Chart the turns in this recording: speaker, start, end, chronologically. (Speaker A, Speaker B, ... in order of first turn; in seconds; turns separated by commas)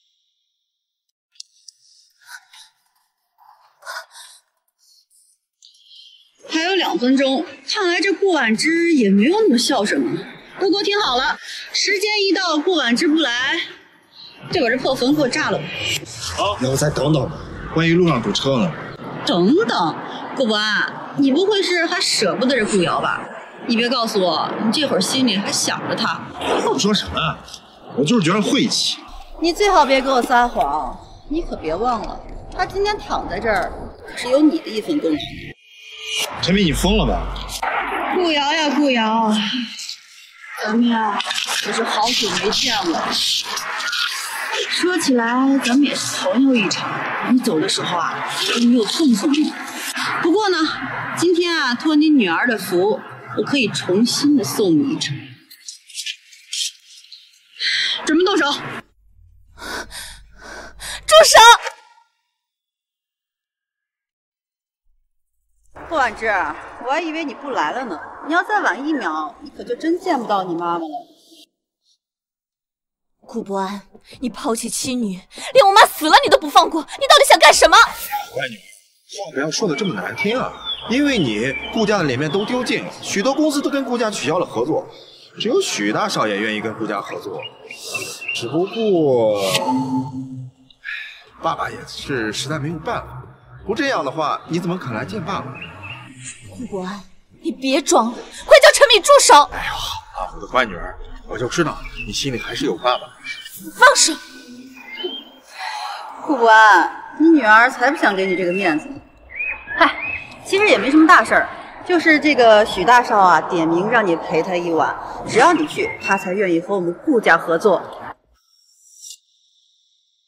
Speaker A: 6.5-13.7, Speaker A: 14.5-15.7, Speaker B: 16.4-18.8, Speaker A: 19.2-26.3, Speaker B: 26.6-27.4, Speaker B: 27.9-29.0, Speaker A: 29.4-35.4, Speaker B: 36.4-37.3, Speaker A: 38.1-39.5, Speaker A: 40.6-43.1, Speaker A: 44.7-49.6, Speaker A: 50.2-55.2, Speaker A: 58.0-58.6, Speaker C: 61.0-61.6, Speaker A: 65.9-71.1, Speaker C: 73.2-77.9, Speaker B: 78.3-87.5, Speaker B: 88.3-89.7, Speaker B: 91.4-95.6, Speaker C: 96.5-99.5, Speaker B: 99.5-103.1, Speaker C: 103.7-104.2, Speaker A: 106.2-109.0, Speaker A: 109.8-117.9